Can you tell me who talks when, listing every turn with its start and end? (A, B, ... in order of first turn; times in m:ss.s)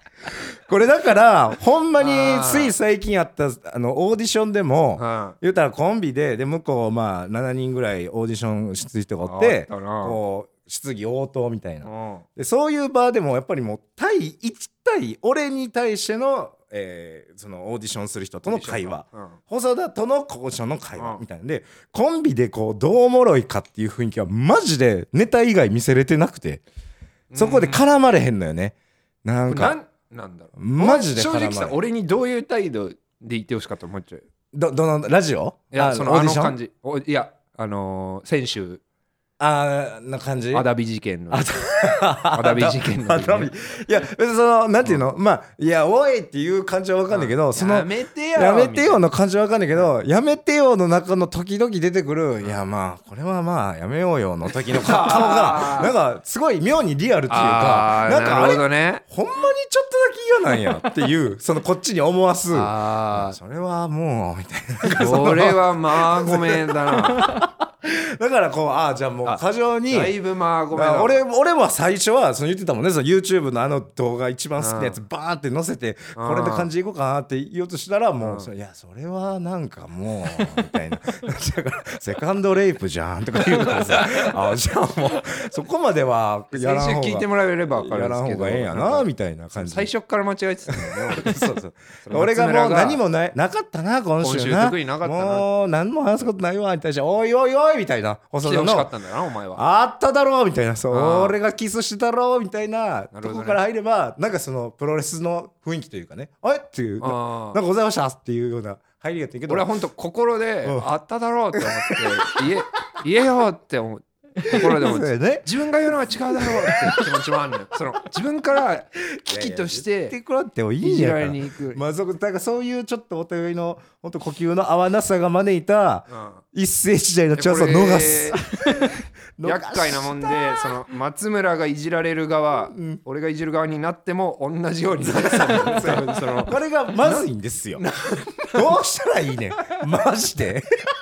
0:00.7-0:26.6 A
0:02.0-0:02.7 B
0:05.0-0:05.4 B
0:09.2-0:10.2 B
0:11.8-0:12.2 B
0:18.4-0:19.4 B
0:21.0-0:21.2 B
0:27.3-0:27.8 B
0:27.4-0:29.8 A
0:29.5-0:34.2 B
0:30.6-0:31.8 A
0:34.5-0:36.6 A
0:35.7-0:38.8 B
0:39.4-0:40.7 A
0:40.5-0:41.5 B
0:41.3-1:10.2 A
0:42.3-0:43.5 B
0:47.1-0:49.0 B
0:54.7-0:55.9 B
0:57.3-0:59.0 B
1:02.5-1:03.4 B
1:04.8-1:07.4 B
1:09.2-1:11.2 B
1:10.7-1:29.9 A
1:14.6-1:15.0 B
1:16.2-1:16.7 B
1:18.2-1:18.5 B
1:23.6-1:24.3 B
1:26.5-1:33.0 B
1:30.8-1:38.9 A
1:34.2-1:35.5 B
1:38.4-1:39.6 B
1:39.5-1:49.7 A
1:40.9-1:41.4 B
1:43.1-1:43.6 B
1:47.0-1:47.6 B
1:49.5-2:00.2 B
1:51.5-1:52.4 A
1:54.4-1:55.5 A
1:56.3-1:57.1 A
1:59.2-2:10.7 A
2:00.8-2:01.8 B
2:06.1-2:06.4 B
2:07.4-2:08.9 B
2:09.4-2:17.2 B
2:12.7-2:13.0 A
2:15.0-2:17.8 A
2:17.8-2:18.8 B
2:18.5-2:20.7 A